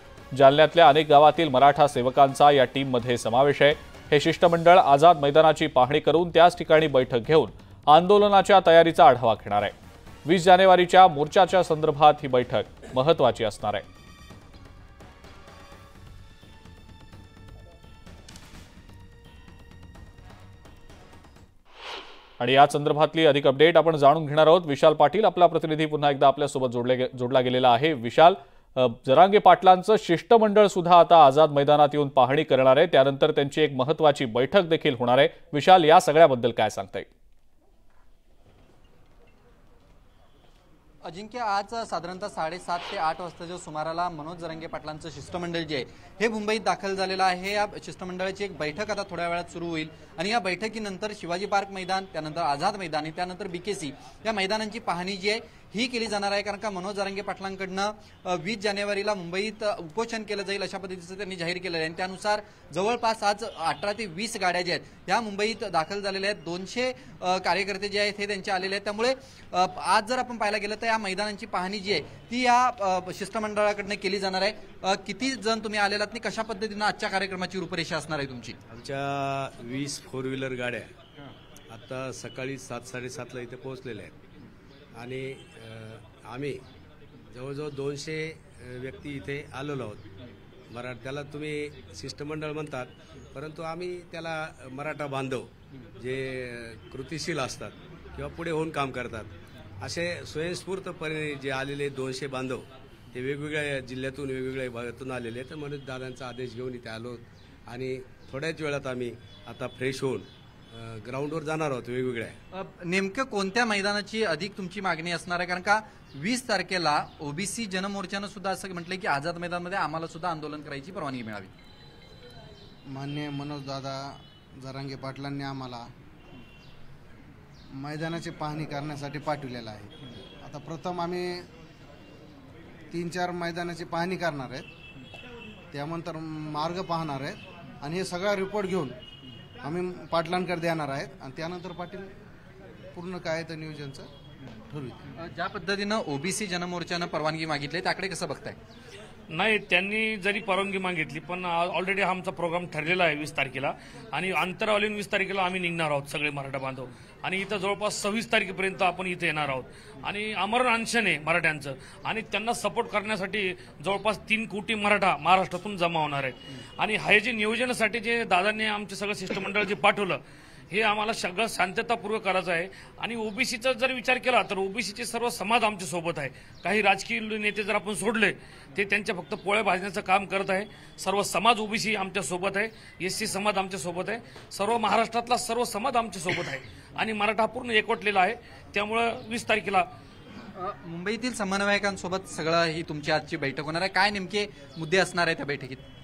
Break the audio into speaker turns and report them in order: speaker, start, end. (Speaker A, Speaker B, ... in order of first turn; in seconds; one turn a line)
Speaker A: 0.3-9.7
Speaker A: 10.3-13.8
Speaker A: 22.4-37.1
Speaker B: 41.0-78.5
Speaker C: 78.7-80.9
Speaker C: 81.7-84.1
Speaker C: 84.9-86.6
Speaker C: 87.3-90.0
Speaker C: 90.7-112.4
Speaker B: 112.5-121.5
Speaker D: 122.9-125.9
Speaker D: 127.7-131.5
Speaker D: 132.9-134.7
Speaker D: 135.7-139.0
Speaker D: 139.6-142.1
Speaker D: 142.9-144.1
Speaker D: 144.7-145.1
Speaker B: 145.2-148.6
Speaker E: 149.3-189.9
Speaker B: 190.6-195.8